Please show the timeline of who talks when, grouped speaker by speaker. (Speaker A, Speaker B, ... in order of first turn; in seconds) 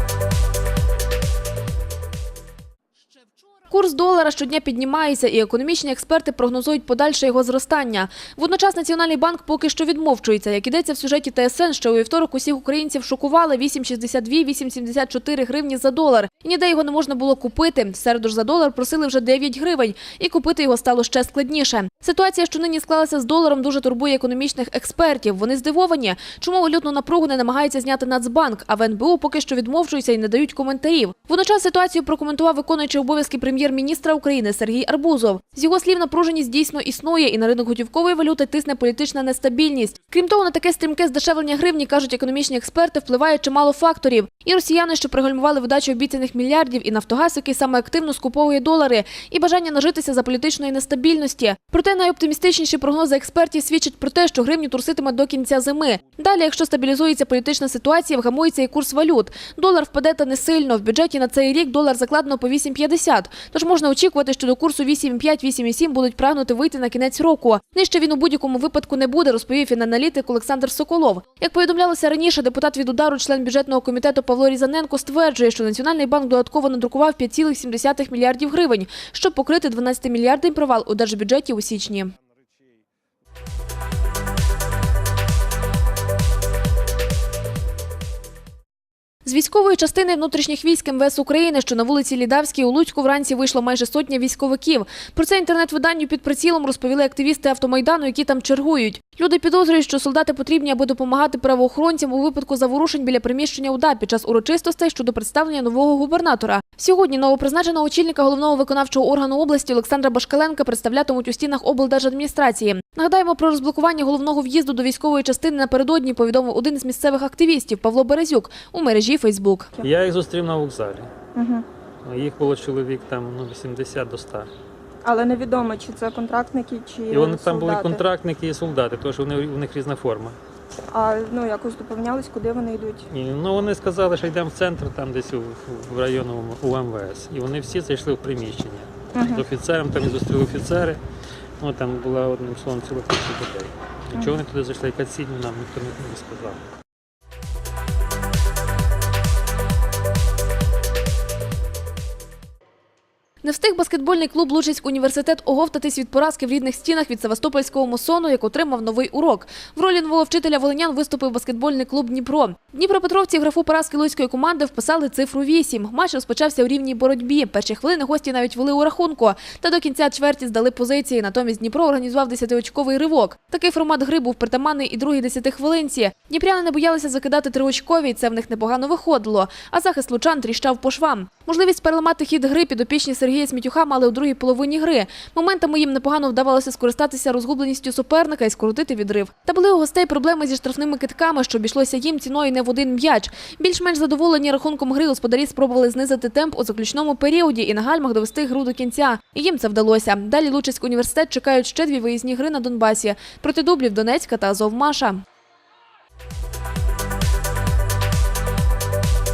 Speaker A: 3.7-82.1, 89.2-119.7, 153.4-205.2
Speaker B: 119.8-121.1, 122.0-124.5, 127.1-130.4, 133.1-141.0, 141.6-146.6
Speaker C: 121.3-121.7, 125.0-128.0, 130.9-133.1, 139.2-139.5, 144.1-144.4